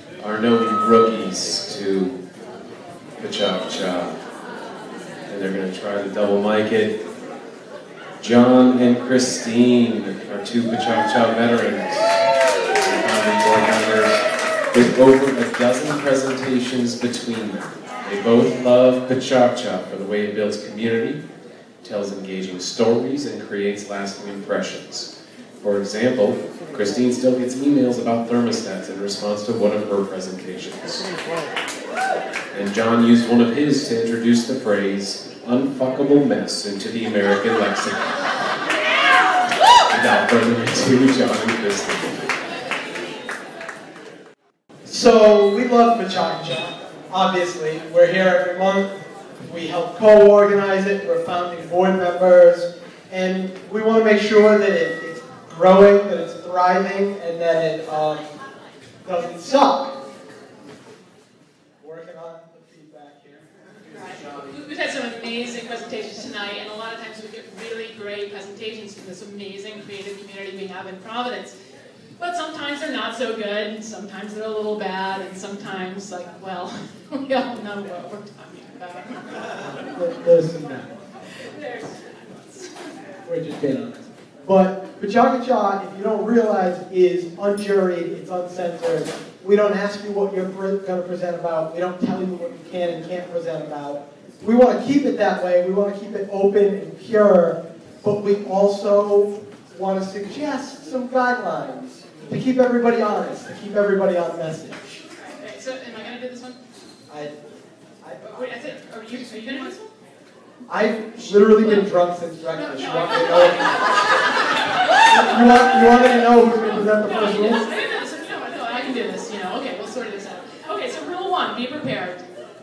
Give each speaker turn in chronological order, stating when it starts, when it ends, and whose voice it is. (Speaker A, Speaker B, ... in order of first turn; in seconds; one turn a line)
Speaker A: 0.2-2.2
Speaker A: 3.2-4.2
Speaker A: 5.3-7.0
Speaker A: 8.2-14.2
Speaker A: 14.7-21.2
Speaker A: 21.8-31.1
Speaker A: 32.5-38.1
Speaker A: 39.9-42.3
Speaker B: 44.9-58.3
Speaker B: 59.0-60.0
Speaker B: 61.8-64.5
Speaker C: 63.9-71.5
Speaker C: 72.2-79.3
Speaker B: 79.7-81.0
Speaker C: 81.4-82.7
Speaker B: 83.2-105.0
Speaker C: 105.1-106.6
Speaker B: 107.1-107.3
Speaker B: 108.0-108.4
Speaker C: 108.2-109.9
Speaker B: 110.7-113.8
Speaker C: 111.2-112.0
Speaker C: 112.5-122.2
Speaker B: 115.0-117.6